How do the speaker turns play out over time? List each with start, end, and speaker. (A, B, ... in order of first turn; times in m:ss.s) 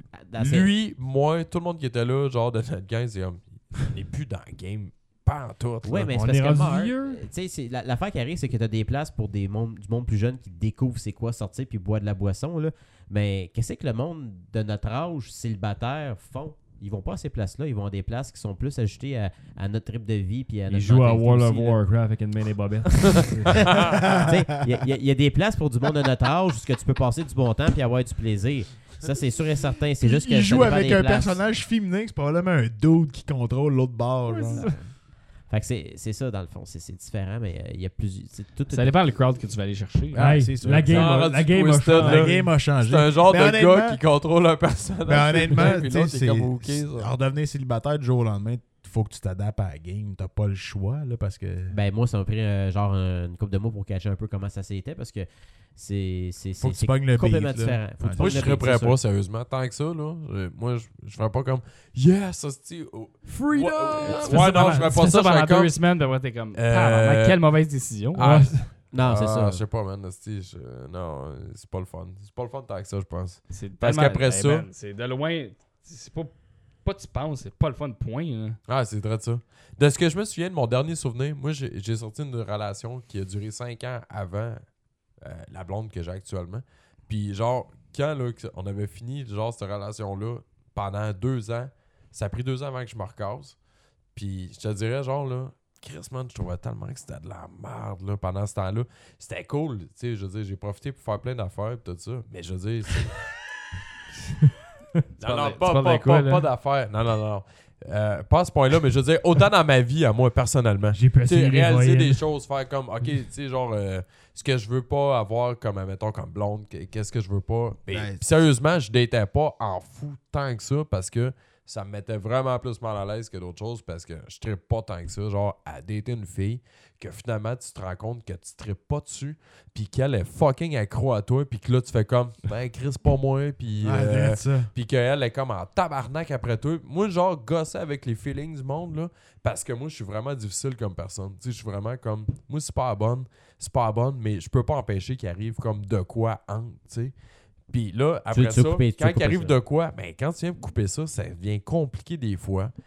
0:00.2-0:00.7 A
0:00.4-0:06.1 B
0:05.8-0:21.8 A
0:06.1-0:07.2 C
0:20.7-0:23.7 C
0:23.0-0:31.4 A
0:23.2-0:23.9 B
0:23.9-0:24.4 D
0:30.0-0:34.7 D
0:34.3-0:34.8 C
0:34.5-0:34.9 A
0:35.5-0:39.0 A
0:38.7-0:40.3 E
0:40.1-0:41.4 D
0:40.2-0:42.6 C
0:40.9-0:47.1 B
0:41.9-0:44.0 D
0:45.1-0:51.8 D
0:51.7-0:59.0 A
0:56.6-0:58.6 D
0:58.2-1:05.8 B
1:03.3-1:04.9 C
1:04.0-1:08.2 E
1:06.5-1:07.4 B
1:08.1-1:14.7 B
1:08.2-1:08.8 C
1:08.9-1:09.6 A
1:13.5-1:18.6 E
1:18.7-1:24.6 B
1:25.2-1:33.6 B
1:34.1-1:43.3 B
1:45.2-2:27.1 B
1:45.2-1:46.5 E
1:50.9-1:52.2 C
1:57.9-1:58.3 D
2:13.8-2:14.7 D
2:27.7-2:32.7 B
2:28.3-2:29.6 A